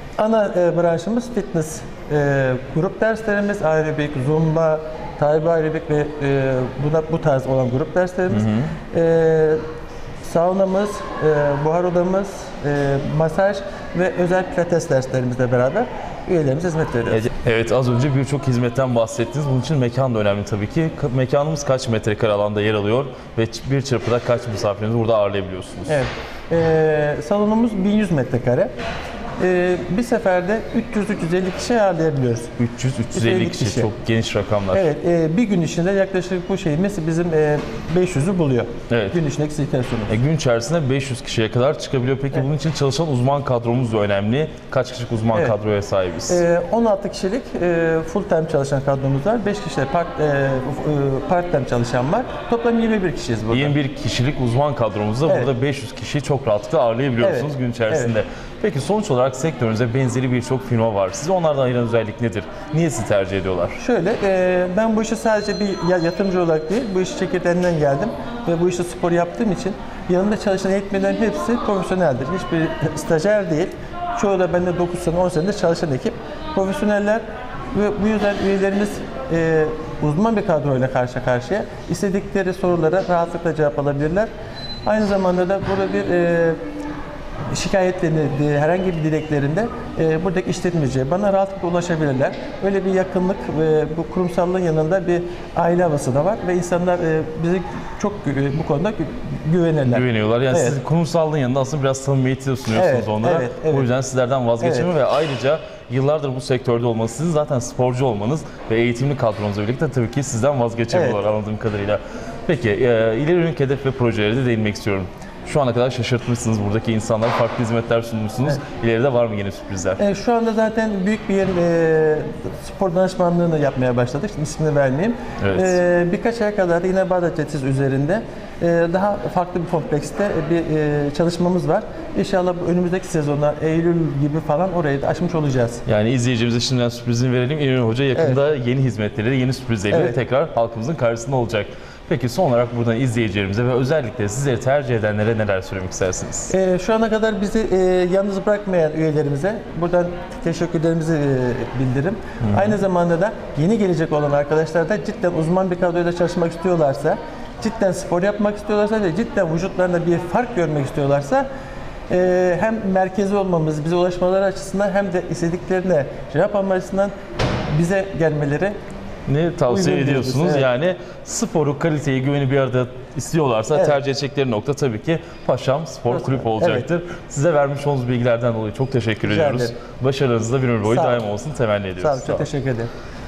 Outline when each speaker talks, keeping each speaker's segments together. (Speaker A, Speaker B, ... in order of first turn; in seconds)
Speaker A: 0.2-9.6, 10.2-17.3, 25.9-28.7, 29.4-32.6, 33.1-33.9, 34.7-40.1, 46.3-53.7, 55.2-55.5, 57.2-58.1, 63.8-84.3, 84.8-86.6, 87.5-100.8, 102.7-103.9, 104.6-104.9, 110.9-111.2, 120.0-135.8, 139.9-140.2, 146.5-161.4, 162.1-167.1, 167.7-168.7, 169.7-170.7, 173.7-174.0, 176.1-176.9, 179.2-179.8, 180.8-181.3, 182.0-182.9
Speaker B: 8.3-8.7, 17.1-26.0, 32.6-34.9, 38.9-39.2, 40.1-46.4, 53.5-63.8, 99.9-120.0, 125.4-125.8, 135.8-146.5, 152.4-152.7, 169.3-182.5